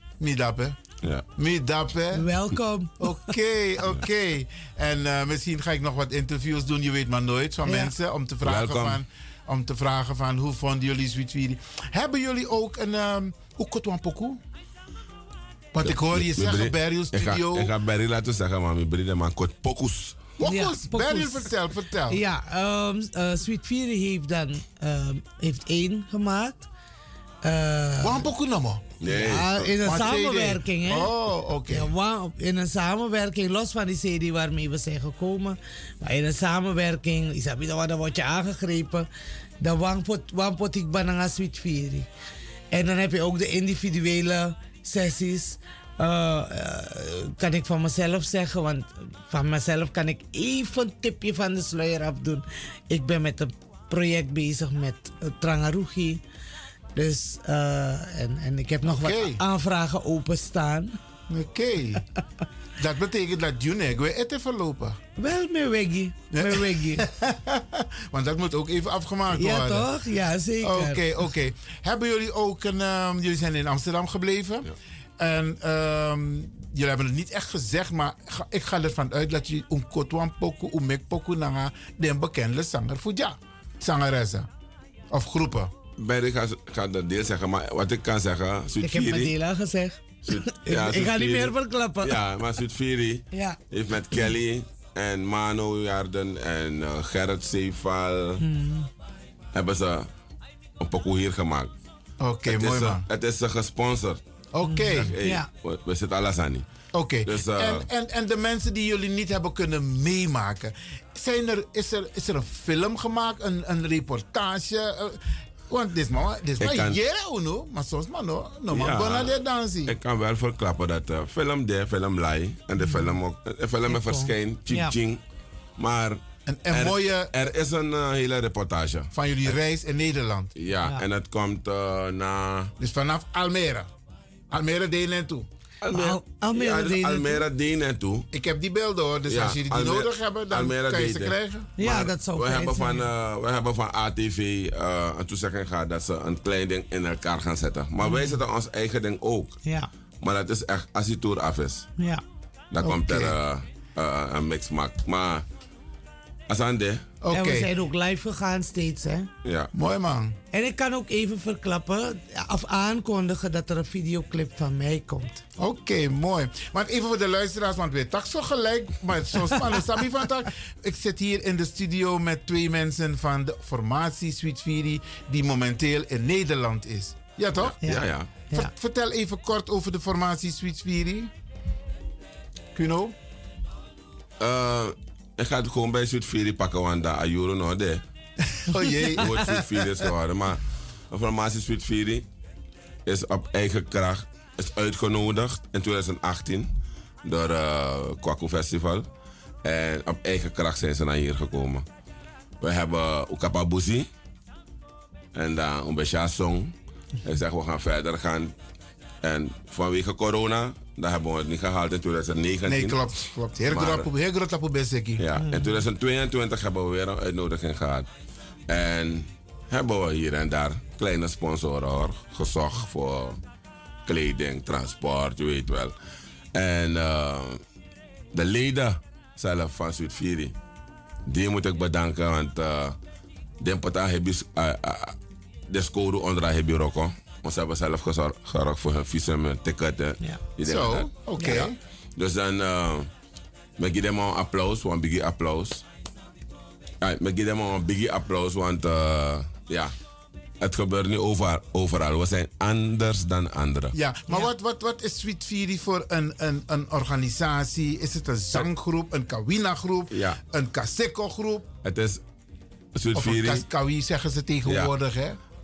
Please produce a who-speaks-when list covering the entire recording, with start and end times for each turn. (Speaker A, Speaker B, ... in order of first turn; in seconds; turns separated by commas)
Speaker A: 0.2-0.8, Speaker A: 1.4-2.3, Speaker B: 2.1-3.3, Speaker A: 3.0-14.4, Speaker B: 7.7-7.9, Speaker C: 8.4-9.0, Speaker A: 15.7-17.7, Speaker C: 15.8-20.2, Speaker A: 20.4-22.2, Speaker B: 20.4-21.5, Speaker B: 22.1-26.7, Speaker B: 27.4-28.2, Speaker A: 28.0-29.0, Speaker C: 29.0-29.7, Speaker B: 29.0-31.1, Speaker A: 29.6-31.9, Speaker B: 31.7-39.1, Speaker B: 39.6-42.1, Speaker B: 42.7-56.2, Speaker B: 57.0-60.9, Speaker A: 58.8-59.4, Speaker A: 61.3-62.0, Speaker A: 62.8-65.0, Speaker B: 65.2-67.1, Speaker A: 66.3-69.9, Speaker B: 69.3-71.0, Speaker A: 70.6-84.5, Speaker A: 85.1-85.7, Speaker C: 86.0-89.3, Speaker B: 88.8-92.4, Speaker C: 90.2-98.4, Speaker B: 93.3-93.6, Speaker B: 98.4-98.9, Speaker C: 99.5-100.1, Speaker C: 100.8-101.7, Speaker A: 102.2-103.0, Speaker C: 102.4-104.2, Speaker A: 104.5-105.1, Speaker B: 104.6-105.5, Speaker C: 104.8-106.6, Speaker A: 106.9-119.9, Speaker C: 107.2-107.8, Speaker C: 116.6-117.0, Speaker C: 118.7-125.2, Speaker B: 122.8-123.2, Speaker B: 123.9-124.9, Speaker C: 125.8-129.1, Speaker A: 126.5-127.3, Speaker A: 129.1-130.5, Speaker C: 130.6-132.7, Speaker A: 132.8-133.9, Speaker A: 134.5-135.5, Speaker C: 135.8-138.3, Speaker B: 135.9-137.4, Speaker A: 138.3-141.7, Speaker C: 139.3-149.6, Speaker B: 141.8-143.1, Speaker B: 148.0-148.4, Speaker C: 150.2-151.9, Speaker B: 152.0-152.2, Speaker C: 152.7-155.4, Speaker A: 152.8-153.3, Speaker C: 156.5-157.0, Speaker A: 157.2-157.7, Speaker B: 157.3-159.3, Speaker C: 159.4-159.7, Speaker A: 159.7-160.4, Speaker B: 160.5-165.4, Speaker A: 165.6-177.8, Speaker C: 177.6-178.3, Speaker B: 177.8-178.7, Speaker A: 178.5-181.3, Speaker A: 182.7-183.2, Speaker C: 184.4-188.0, Speaker A: 188.6-189.9, Speaker B: 188.9-189.1, Speaker C: 189.2-192.2, Speaker C: 193.1-196.7, Speaker C: 197.2-199.1, Speaker C: 199.6-201.8, Speaker C: 202.6-204.1, Speaker C: 205.3-208.5, Speaker C: 209.2-213.0, Speaker A: 212.6-215.2, Speaker C: 213.7-214.1, Speaker C: 215.2-218.1, Speaker B: 215.3-215.8, Speaker C: 218.7-223.4, Speaker C: 224.1-225.9, Speaker C: 226.5-227.6, Speaker C: 228.3-230.5, Speaker C: 231.3-233.0, Speaker C: 233.6-235.2, Speaker C: 235.7-241.1, Speaker A: 240.6-241.8, Speaker B: 241.4-241.7, Speaker C: 242.2-243.1, Speaker C: 243.8-245.8, Speaker C: 247.0-249.9, Speaker C: 250.6-253.9, Speaker A: 253.9-261.7, Speaker C: 260.1-260.4, Speaker C: 261.8-262.2, Speaker C: 262.9-263.6, Speaker A: 263.1-265.4, Speaker C: 264.6-264.9